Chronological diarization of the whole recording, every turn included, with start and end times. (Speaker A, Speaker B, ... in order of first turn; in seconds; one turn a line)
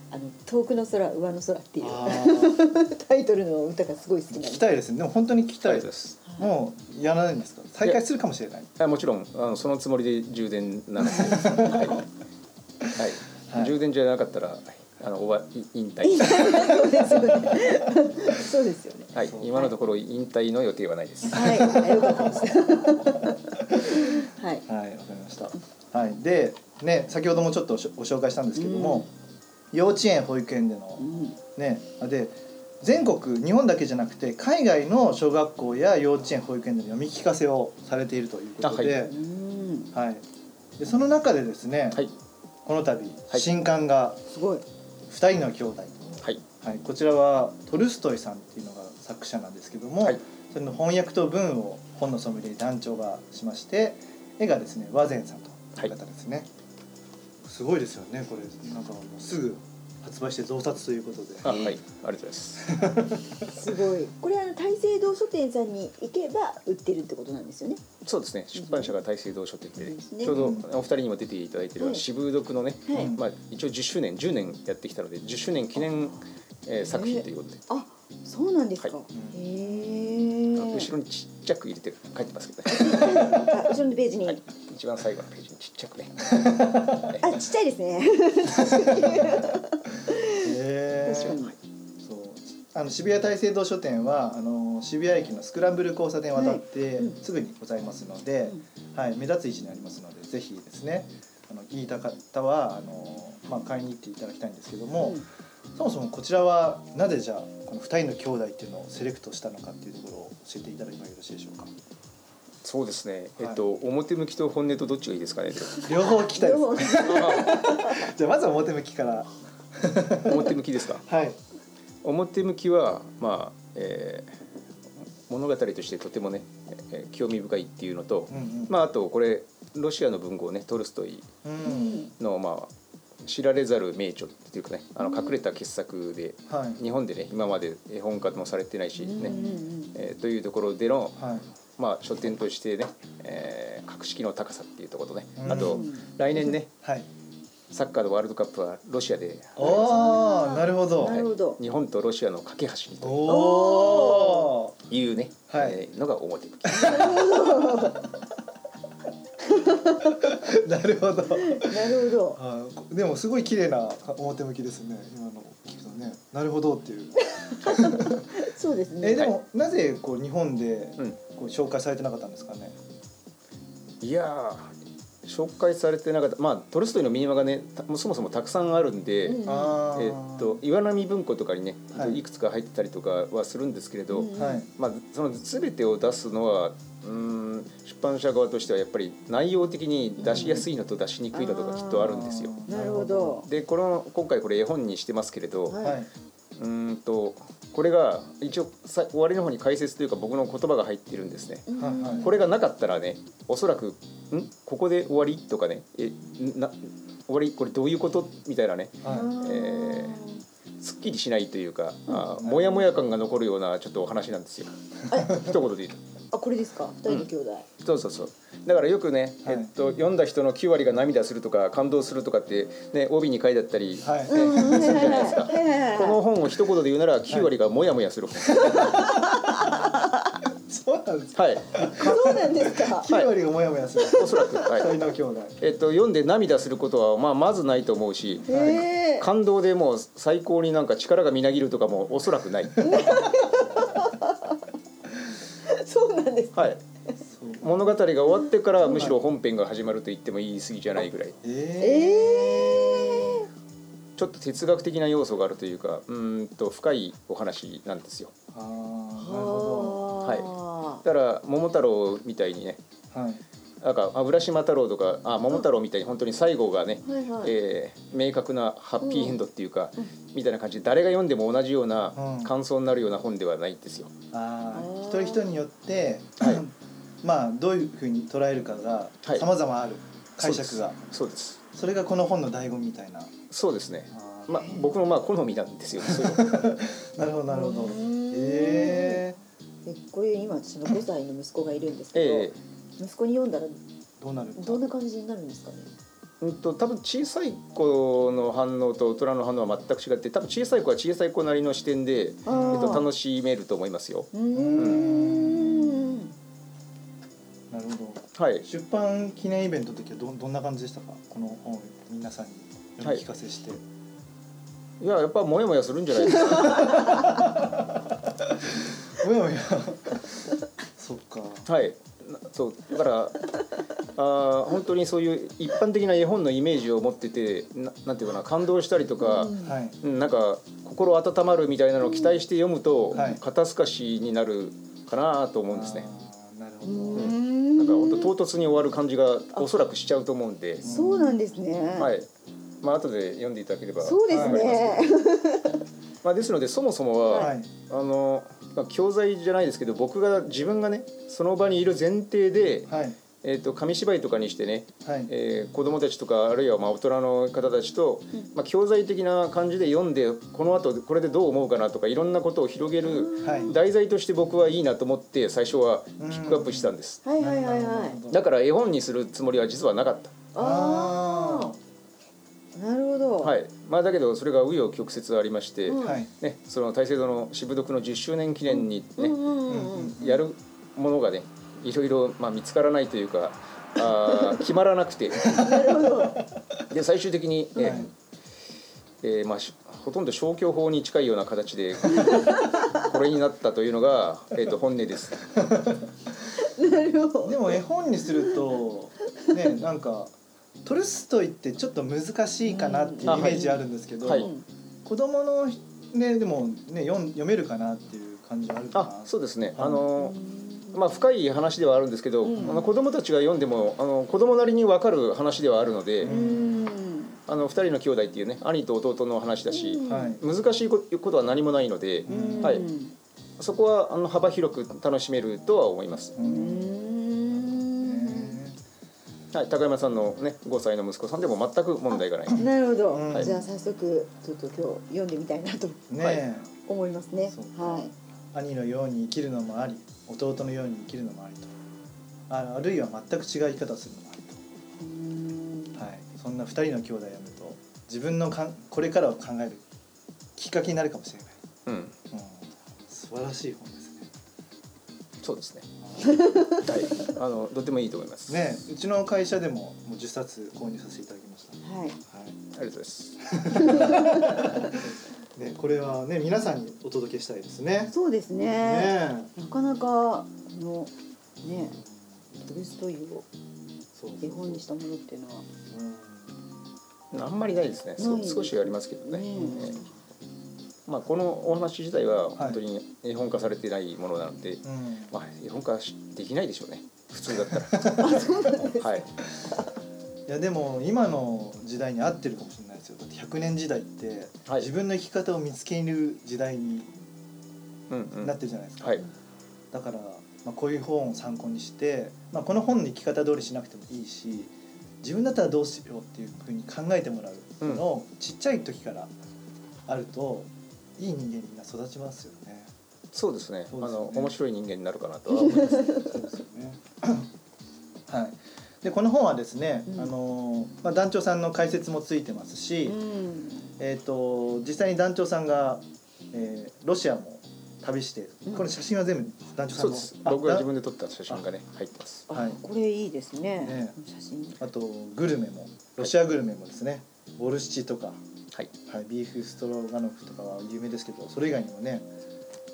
Speaker A: 0.1-4.7
Speaker B: 1.8-2.6
Speaker B: 4.3-8.7
Speaker C: 5.6-6.2
Speaker C: 8.8-12.0
Speaker B: 11.1-11.9
Speaker C: 12.9-16.9
Speaker B: 13.5-13.8
Speaker A: 16.0-19.7
Speaker C: 19.1-21.8
Speaker B: 19.2-19.5
Speaker A: 21.2-24.6
Speaker B: 21.6-22.0
Speaker B: 23.8-29.1
Speaker A: 28.5-29.1
Speaker B: 29.7-31.0
Speaker A: 31.0-31.4
Speaker B: 31.5-39.1
Speaker C: 38.6-39.0
Speaker A: 39.0-39.9
Speaker B: 39.9-40.2
Speaker B: 40.8-42.0
Speaker B: 42.6-44.2
Speaker A: 44.3-44.6
Speaker B: 45.1-56.5
Speaker B: 57.4-61.7
Speaker C: 61.4-62.8
Speaker B: 62.6-63.2
Speaker A: 63.5-67.8
Speaker C: 68.0-77.6
Speaker A: 68.5-68.9
Speaker A: 69.8-70.3
Speaker B: 70.3-70.7
Speaker A: 71.8-72.0
Speaker A: 72.9-73.1
Speaker B: 72.9-73.2
Speaker A: 76.9-80.9
Speaker B: 79.1-80.3
Speaker C: 80.5-83.3
Speaker A: 82.7-84.4
Speaker C: 84.3-87.3
Speaker B: 86.3-87.0
Speaker A: 87.2-91.5
Speaker B: 88.6-89.2
Speaker B: 90.3-91.4
Speaker B: 92.0-105.2
Speaker A: 96.3-97.2
Speaker A: 105.0-105.2
Speaker B: 105.8-111.7
Speaker C: 112.6-115.9
Speaker A: 115.8-118.1
Speaker B: 115.8-121.4
Speaker C: 116.9-117.7
Speaker C: 120.2-121.0
Speaker C: 122.0-124.3
Speaker C: 125.3-131.3
Speaker B: 128.3-128.7
Speaker B: 131.4-132.1
Speaker A: 131.6-132.1
Speaker C: 132.2-132.7
Speaker C: 133.2-139.4
Speaker B: 136.5-136.8
Speaker A: 139.0-139.9
Speaker B: 139.2-139.5
Speaker C: 139.9-141.2
Speaker B: 141.2-141.5
Speaker C: 141.8-146.7
Speaker B: 145.4-145.8
Speaker A: 145.5-146.1
Speaker B: 146.7-147.1
Speaker C: 147.7-150.1
Speaker B: 149.6-151.2
Speaker A: 149.6-151.6
Speaker C: 151.1-153.4
Speaker B: 153.0-154.8
Speaker A: 153.2-154.6
Speaker C: 154.9-157.2
Speaker B: 155.5-155.8
Speaker B: 156.7-157.8
Speaker A: 156.7-158.1
Speaker A: 159.4-160.3
Speaker B: 160.1-168.3
Speaker A: 161.3-162.4
Speaker A: 167.2-169.3
Speaker B: 169.0-172.8
Speaker C: 174.0-174.7
Speaker C: 175.2-192.6
Speaker A: 179.2-179.8
Speaker B: 179.4-180.6
Speaker B: 181.9-182.2
Speaker A: 184.1-184.7
Speaker B: 184.3-184.7
Speaker A: 190.2-190.7
Speaker A: 191.3-193.5
Speaker B: 192.0-193.4
Speaker C: 193.4-195.8
Speaker A: 195.7-196.0
Speaker B: 195.8-196.1
Speaker C: 196.6-210.2
Speaker A: 201.7-202.3
Speaker B: 201.8-202.3
Speaker B: 209.0-209.3
Speaker A: 209.0-210.4
Speaker C: 210.8-216.0
Speaker B: 212.4-212.8
Speaker A: 215.1-215.5
Speaker A: 216.3-217.7
Speaker C: 217.8-229.1
Speaker B: 219.4-219.7
Speaker B: 224.0-225.3
Speaker A: 224.3-226.2
Speaker B: 228.5-229.0
Speaker A: 228.6-230.3
Speaker B: 230.7-235.6
Speaker C: 231.3-232.5
Speaker A: 231.9-233.1
Speaker C: 233.1-233.3
Speaker A: 234.0-234.6
Speaker C: 234.1-234.9
Speaker C: 235.6-238.5
Speaker A: 238.5-239.3
Speaker B: 238.5-238.9
Speaker C: 239.2-242.9
Speaker A: 242.8-244.6
Speaker A: 245.6-247.1
Speaker C: 246.5-246.8
Speaker B: 247.3-247.7
Speaker C: 247.6-251.4
Speaker B: 248.9-249.2
Speaker B: 251.4-253.4
Speaker A: 251.8-253.5
Speaker C: 254.2-258.3
Speaker B: 258.5-260.0
Speaker A: 259.2-261.0
Speaker C: 260.2-260.5
Speaker C: 261.0-262.8
Speaker B: 263.1-263.4
Speaker C: 263.8-274.1
Speaker A: 267.0-267.5
Speaker A: 269.0-269.4
Speaker B: 272.1-272.5
Speaker B: 274.3-281.0
Speaker A: 274.7-275.5
Speaker C: 280.4-281.6
Speaker B: 281.7-283.3
Speaker C: 283.5-286.8
Speaker B: 284.1-284.7
Speaker A: 284.6-284.9
Speaker B: 286.0-289.4
Speaker A: 287.5-289.2
Speaker A: 289.9-293.8
Speaker C: 292.1-292.6
Speaker B: 294.2-294.9
Speaker A: 294.6-295.9
Speaker C: 296.4-305.1
Speaker A: 302.4-303.1
Speaker B: 302.5-303.0
Speaker A: 304.3-306.3
Speaker B: 304.5-306.1
Speaker B: 307.7-313.8
Speaker C: 308.4-308.6
Speaker C: 315.0-317.2
Speaker B: 316.6-321.7
Speaker C: 321.7-323.5
Speaker C: 324.1-336.1
Speaker A: 329.2-329.8
Speaker B: 329.6-330.0
Speaker B: 333.1-333.4
Speaker B: 335.7-337.3
Speaker A: 336.8-338.3
Speaker C: 337.1-340.9
Speaker B: 340.8-341.4
Speaker A: 340.9-342.1
Speaker C: 342.0-342.3
Speaker C: 342.8-345.1
Speaker A: 344.0-345.8
Speaker B: 344.3-344.7
Speaker C: 346.2-367.2
Speaker B: 347.3-347.7
Speaker B: 352.9-353.2
Speaker B: 355.0-355.3
Speaker A: 363.0-363.7
Speaker B: 363.4-363.8
Speaker B: 366.2-368.4
Speaker A: 367.2-368.2
Speaker C: 368.3-370.4
Speaker A: 370.5-371.7
Speaker B: 370.6-371.8
Speaker A: 372.7-373.5
Speaker C: 373.4-379.4
Speaker A: 375.9-376.2
Speaker B: 376.0-376.3
Speaker A: 379.2-380.2
Speaker B: 379.7-380.4
Speaker C: 380.1-385.7
Speaker A: 384.3-384.6
Speaker A: 385.4-386.4
Speaker C: 386.9-388.1
Speaker A: 387.8-388.1
Speaker B: 387.8-388.1
Speaker C: 389.2-395.6
Speaker A: 392.1-392.9
Speaker B: 395.6-396.0
Speaker A: 396.6-397.8
Speaker B: 397.4-400.3
Speaker B: 400.8-404.5
Speaker A: 402.7-404.6
Speaker C: 403.2-403.7
Speaker C: 404.2-404.5
Speaker B: 405.0-410.1
Speaker C: 408.9-410.4
Speaker A: 410.2-411.0
Speaker C: 410.9-416.3
Speaker A: 412.4-412.9
Speaker B: 412.6-412.9
Speaker B: 416.2-416.8
Speaker A: 416.2-417.4
Speaker C: 417.5-422.9
Speaker A: 419.7-420.4
Speaker B: 420.1-420.4
Speaker B: 422.2-422.9
Speaker A: 422.3-423.1
Speaker C: 423.6-426.4
Speaker B: 426.4-428.8
Speaker A: 426.4-428.6
Speaker C: 429.5-432.7
Speaker A: 432.5-436.1
Speaker B: 433.1-433.6
Speaker B: 436.1-436.7
Speaker A: 436.9-438.1
Speaker B: 437.5-441.7
Speaker B: 442.5-444.6
Speaker A: 445.0-446.0
Speaker B: 446.0-449.8
Speaker B: 450.6-451.6
Speaker C: 451.9-452.1
Speaker B: 452.3-454.3
Speaker C: 455.4-455.9
Speaker B: 456.0-456.6
Speaker A: 456.2-456.8
Speaker C: 456.6-458.6
Speaker B: 458.5-462.6
Speaker A: 461.8-462.2
Speaker C: 462.7-464.1
Speaker B: 463.4-468.1
Speaker A: 463.7-464.6
Speaker A: 468.1-472.0
Speaker B: 468.8-469.5
Speaker B: 471.7-472.1
Speaker A: 472.6-473.4
Speaker B: 474.1-474.8
Speaker A: 474.4-475.6
Speaker B: 475.9-476.6
Speaker C: 477.3-480.0
Speaker A: 478.2-480.1
Speaker B: 479.5-480.0
Speaker C: 481.1-488.5
Speaker B: 484.8-485.3
Speaker B: 487.9-488.2
Speaker A: 488.1-489.2
Speaker C: 489.0-489.3
Speaker B: 490.5-497.1
Speaker C: 498.1-499.2
Speaker B: 498.4-499.2
Speaker B: 499.9-509.3
Speaker B: 510.1-512.9
Speaker C: 513.3-516.3
Speaker B: 513.9-514.5
Speaker A: 515.7-516.2
Speaker B: 516.2-517.5
Speaker B: 518.3-523.2
Speaker A: 523.1-523.9
Speaker B: 524.0-530.9
Speaker C: 530.0-532.5
Speaker A: 532.5-534.8
Speaker B: 532.5-532.8
Speaker B: 533.8-534.2
Speaker B: 534.8-538.4
Speaker B: 539.0-542.3